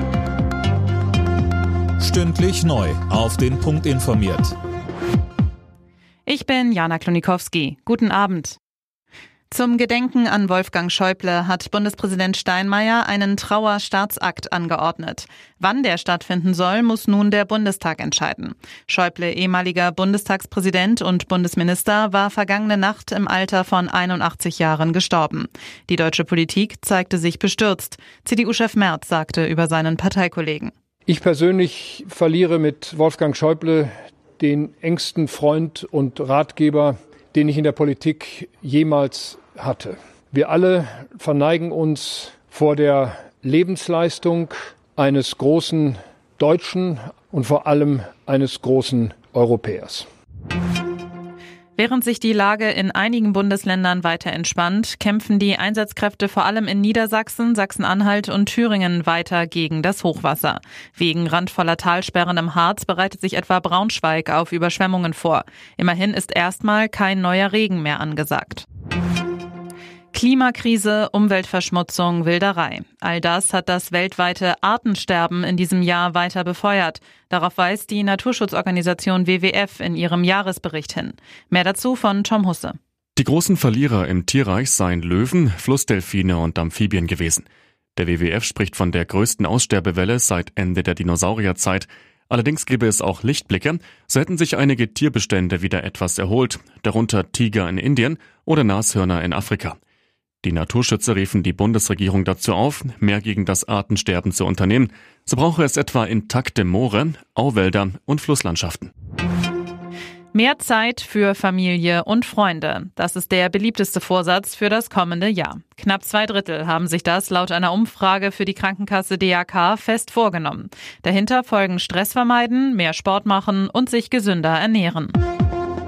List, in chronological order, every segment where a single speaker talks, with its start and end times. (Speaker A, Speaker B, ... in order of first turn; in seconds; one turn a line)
Speaker A: 2.0-4.5
Speaker B: 6.3-8.6
Speaker B: 9.5-30.7
Speaker C: 31.1-50.1
Speaker B: 51.8-68.7
Speaker B: 70.1-82.8
Speaker D: 83.2-99.8
Speaker D: 100.4-108.9
Speaker B: 110.3-125.2